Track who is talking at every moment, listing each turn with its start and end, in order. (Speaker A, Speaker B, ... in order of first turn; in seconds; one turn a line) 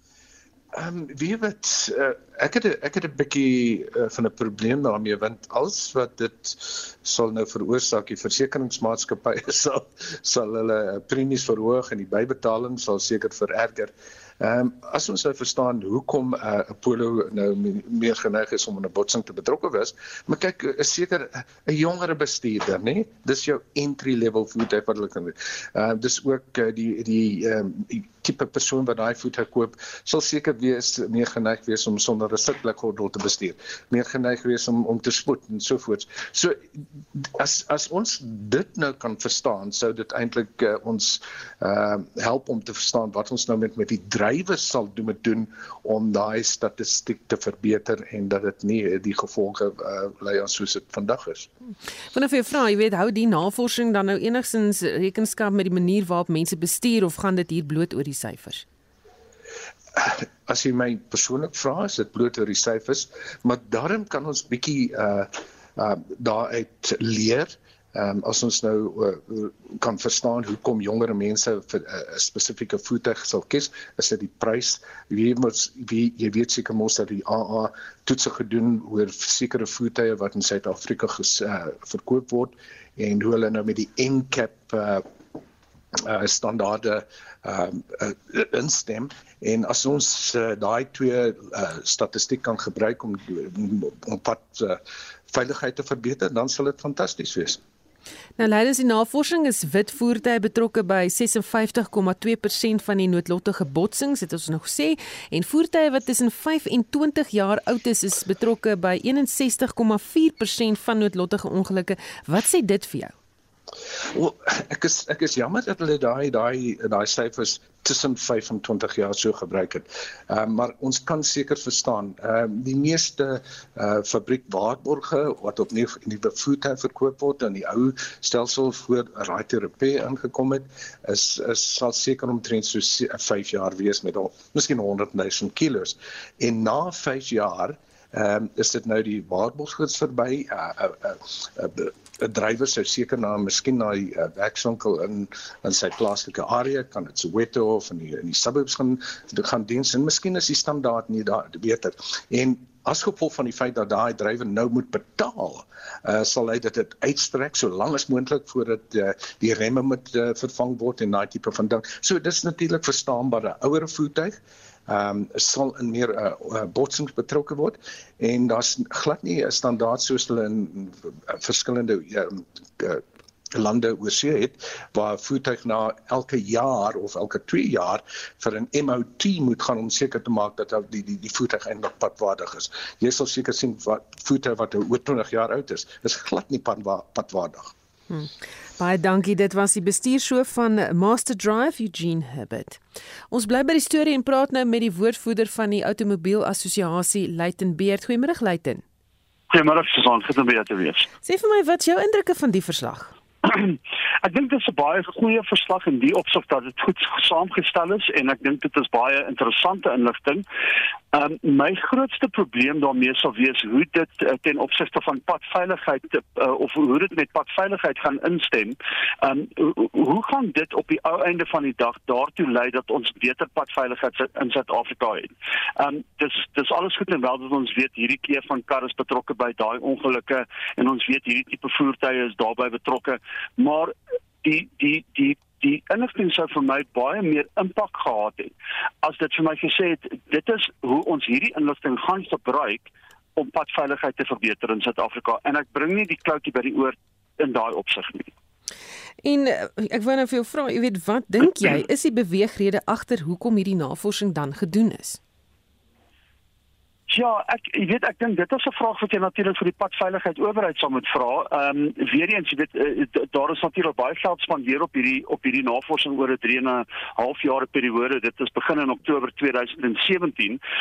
Speaker A: 0.7-51.5
Speaker B: 52.1-58.6
Speaker A: 59.9-85.1
Speaker A: 86.0-97.6
Speaker B: 98.4-113.1
Speaker A: 114.1-187.7
Speaker B: 188.1-198.8
Speaker C: 199.5-201.1
Speaker B: 201.2-203.1
Speaker C: 203.4-210.4
Speaker C: 211.1-248.3
Speaker B: 249.2-255.2
Speaker C: 257.1-270.6